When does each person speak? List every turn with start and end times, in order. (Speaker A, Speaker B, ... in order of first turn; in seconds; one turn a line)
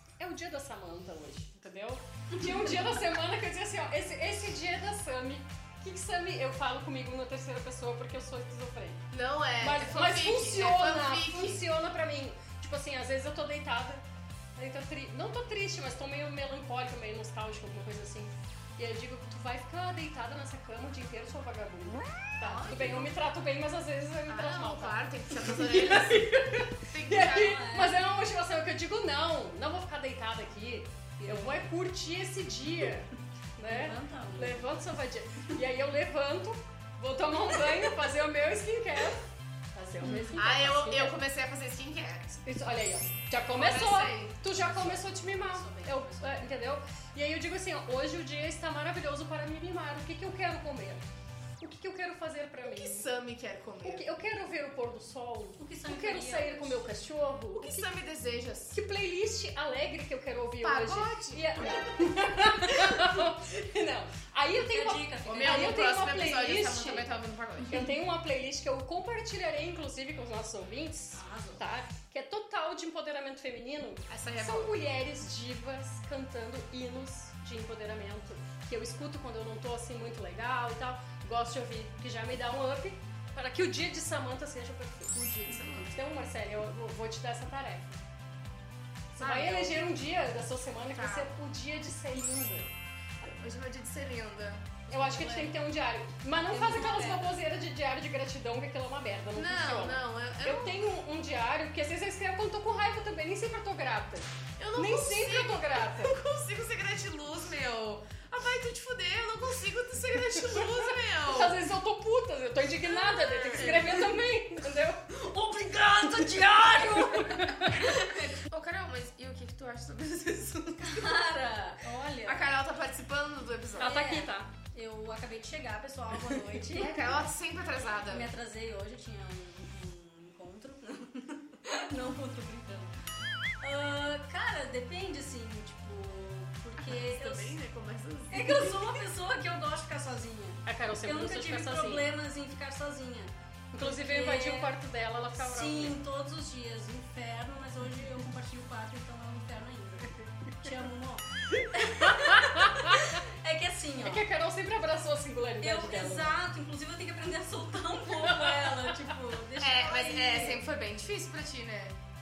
Speaker A: 0.2-9.0
Speaker B: 9.1-11.6
Speaker A: 9.6-14.0
Speaker A: 14.6-39.2
Speaker B: 22.4-23.1
Speaker B: 24.3-27.7
Speaker C: 27.2-28.0
Speaker C: 31.2-31.6
Speaker C: 33.7-34.7
Speaker A: 39.7-41.2
Speaker C: 40.0-40.4
Speaker B: 40.3-42.4
Speaker A: 42.4-51.0
Speaker B: 43.5-44.4
Speaker C: 44.5-46.5
Speaker A: 51.6-53.1
Speaker B: 52.6-54.0
Speaker A: 53.8-57.9
Speaker C: 55.6-56.8
Speaker B: 57.6-58.8
Speaker A: 58.7-67.1
Speaker B: 60.6-62.3
Speaker C: 64.6-65.9
Speaker B: 65.3-67.9
Speaker A: 67.7-88.0
Speaker C: 71.1-71.6
Speaker B: 74.1-74.8
Speaker B: 85.1-86.0
Speaker A: 89.2-92.7
Speaker B: 89.2-90.0
Speaker B: 90.9-91.3
Speaker B: 93.2-95.5
Speaker A: 94.9-106.2
Speaker C: 96.3-97.3
Speaker B: 99.3-100.9
Speaker B: 104.6-111.6
Speaker A: 111.2-118.0
Speaker B: 112.9-114.1
Speaker C: 116.3-117.9
Speaker B: 117.7-121.2
Speaker C: 120.8-122.5
Speaker B: 122.2-124.0
Speaker A: 123.8-124.5
Speaker C: 123.8-127.2
Speaker B: 126.7-128.3
Speaker C: 128.1-132.9
Speaker C: 133.6-137.6
Speaker B: 136.8-139.1
Speaker C: 138.3-144.7
Speaker A: 140.7-142.1
Speaker A: 143.7-146.0
Speaker C: 145.4-154.3
Speaker A: 152.1-153.1
Speaker A: 154.0-156.4
Speaker C: 155.6-160.7
Speaker A: 158.2-159.2
Speaker B: 159.6-162.0